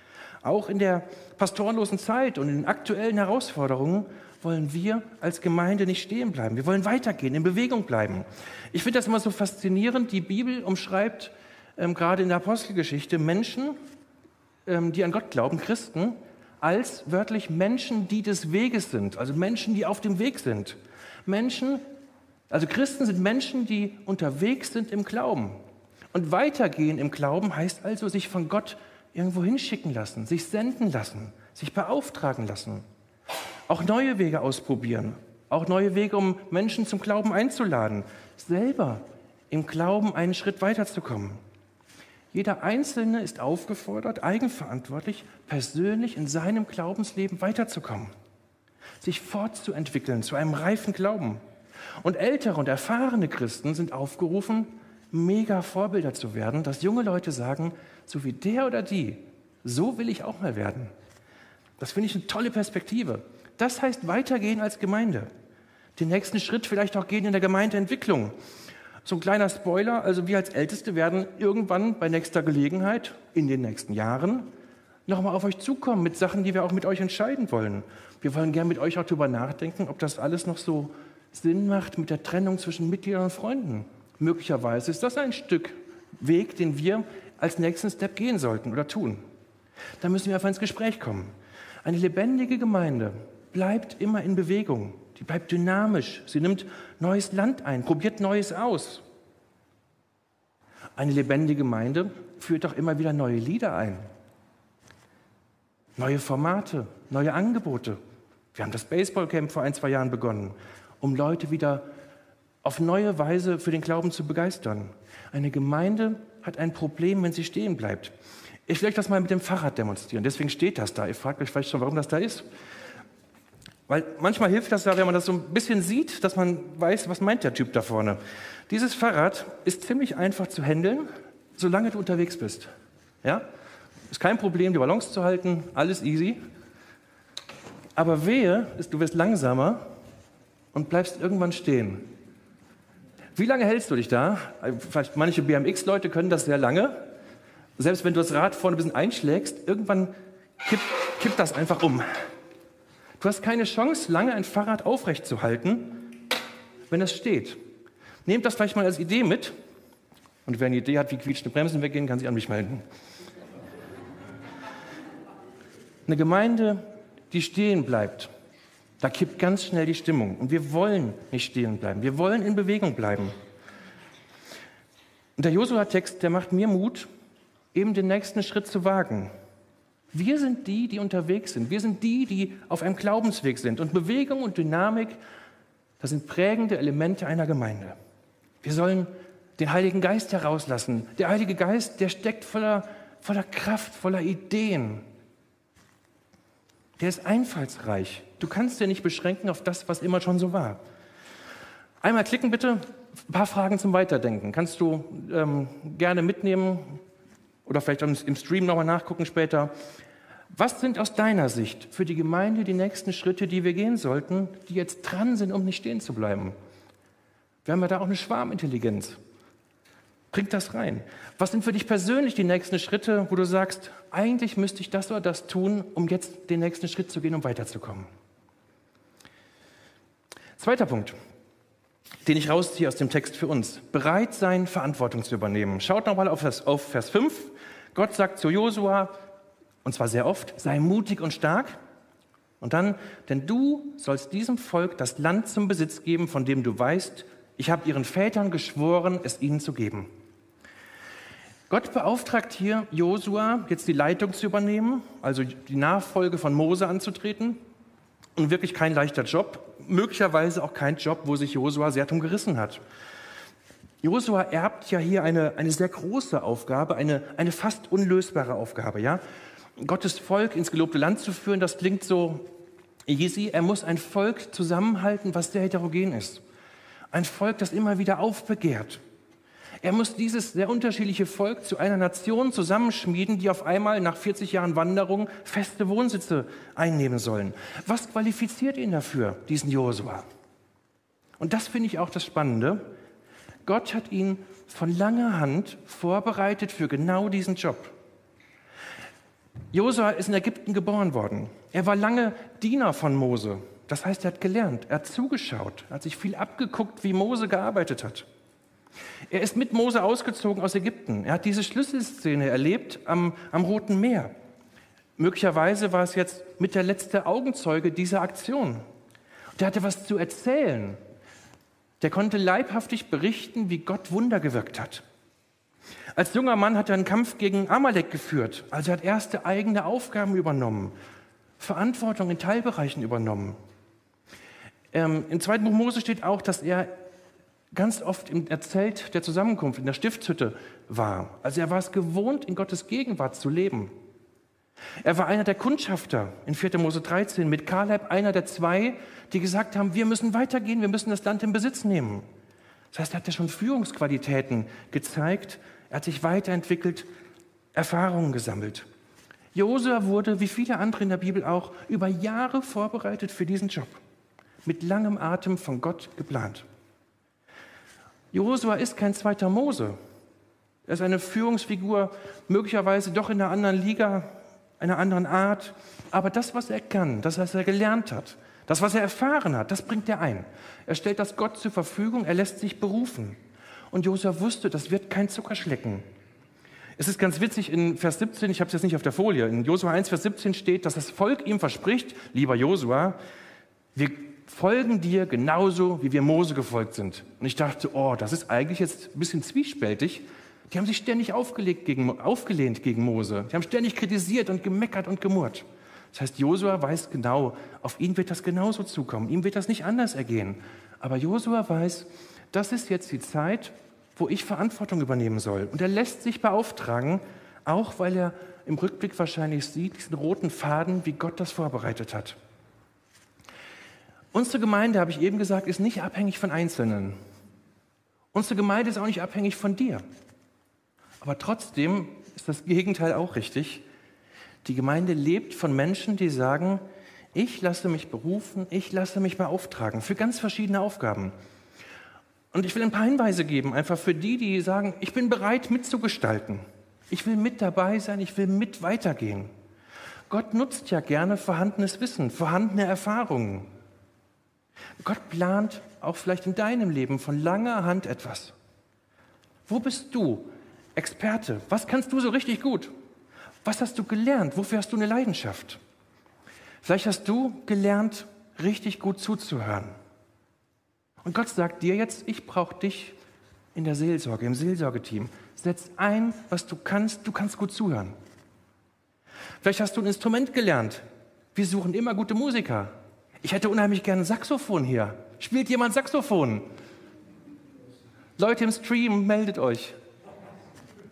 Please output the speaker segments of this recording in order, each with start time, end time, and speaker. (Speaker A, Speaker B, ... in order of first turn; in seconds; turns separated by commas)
Speaker A: 0.4-13.8, Speaker A: 14.7-21.8, Speaker A: 22.5-25.6, Speaker A: 26.1-32.9, Speaker A: 33.7-41.4, Speaker A: 42.3-48.1, Speaker A: 49.0-51.4, Speaker A: 52.0-60.9, Speaker A: 61.8-65.3, Speaker A: 66.0-68.3, Speaker A: 69.0-74.5, Speaker A: 75.1-89.2, Speaker A: 90.0-99.0, Speaker A: 101.0-104.0, Speaker A: 106.0-108.0, Speaker A: 108.5-111.9, Speaker A: 112.6-118.1, Speaker A: 118.7-122.5, Speaker A: 123.9-132.7, Speaker A: 134.1-136.4, Speaker A: 138.0-139.8, Speaker A: 140.7-142.1, Speaker A: 143.4-147.0, Speaker A: 147.8-152.1, Speaker A: 153.2-156.1, Speaker A: 156.9-157.6, Speaker A: 158.3-159.6, Speaker A: 160.4-162.8, Speaker A: 166.1-168.3, Speaker A: 169.0-173.3, Speaker A: 175.4-177.1, Speaker A: 177.7-179.3, Speaker A: 180.1-185.2, Speaker A: 186.0-188.0, Speaker A: 188.6-195.1, Speaker A: 197.0-200.8, Speaker A: 202.0-207.0, Speaker A: 207.7-209.7, Speaker A: 210.5-216.6, Speaker A: 217.7-219.2, Speaker A: 220.3-228.1, Speaker A: 230.6-231.2, Speaker A: 232.2-239.2, Speaker A: 239.8-241.8, Speaker A: 242.6-250.1, Speaker A: 251.7-257.6, Speaker A: 258.4-262.8, Speaker A: 264.0-269.2, Speaker A: 269.8-272.5, Speaker A: 273.1-276.4, Speaker A: 277.1-279.0, Speaker A: 279.8-290.2, Speaker A: 291.4-292.9, Speaker A: 293.6-297.9, Speaker A: 299.7-308.3, Speaker A: 309.3-314.3, Speaker A: 315.2-318.8, Speaker A: 319.6-321.0, Speaker A: 322.0-325.0, Speaker A: 326.2-330.9, Speaker A: 331.6-333.6, Speaker A: 334.9-336.9, Speaker A: 337.7-343.9, Speaker A: 345.0-352.2, Speaker A: 352.9-357.1, Speaker A: 357.8-358.9, Speaker A: 359.5-364.0, Speaker A: 364.7-366.6, Speaker A: 368.3-370.0, Speaker A: 370.9-383.4, Speaker A: 383.9-386.1, Speaker A: 387.0-393.2, Speaker A: 393.9-422.4, Speaker A: 424.3-427.2, Speaker A: 428.3-430.0, Speaker A: 431.2-433.8, Speaker A: 434.6-436.8, Speaker A: 437.3-441.3, Speaker A: 442.5-449.5, Speaker A: 450.3-453.7, Speaker A: 455.0-458.6, Speaker A: 459.7-462.9, Speaker A: 463.6-465.8, Speaker A: 466.8-469.9, Speaker A: 471.2-473.2, Speaker A: 473.8-478.1, Speaker A: 479.6-481.0, Speaker A: 481.6-486.6, Speaker A: 488.4-490.0